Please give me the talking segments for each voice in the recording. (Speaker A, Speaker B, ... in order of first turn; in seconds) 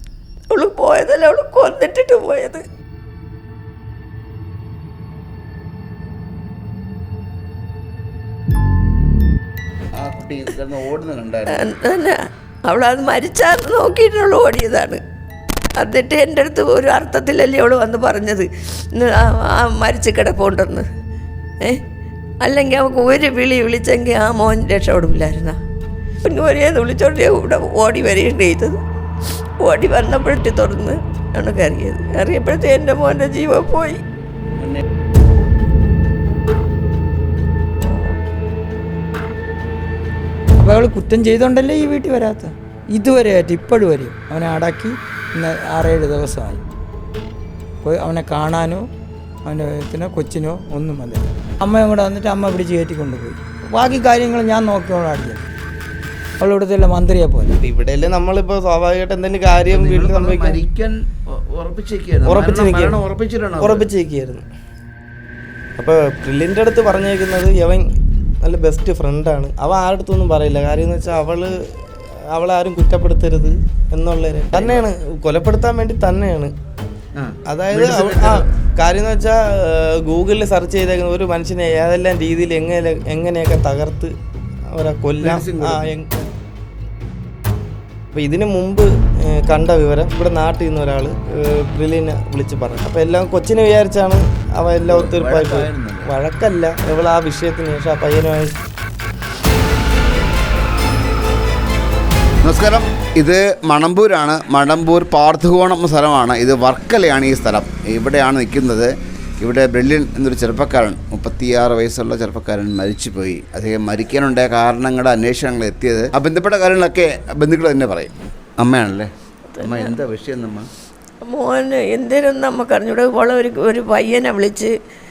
Speaker A: 0.5-2.6, 11.5-15.0, 15.8-20.9, 22.4-25.6, 26.2-28.8, 29.6-34.0, 119.5-119.9, 121.2-124.7
Speaker B: 10.0-11.7, 59.7-63.9, 74.5-74.8, 77.2-78.5, 85.2-85.9, 94.8-96.1, 102.4-120.7
Speaker C: 40.5-46.6, 47.8-48.8, 49.4-55.4, 56.4-57.5
Speaker D: 57.6-60.6, 62.2-63.0, 63.6-64.5, 65.8-67.9, 68.4-76.5, 77.5-84.1, 84.7-86.2, 88.1-98.6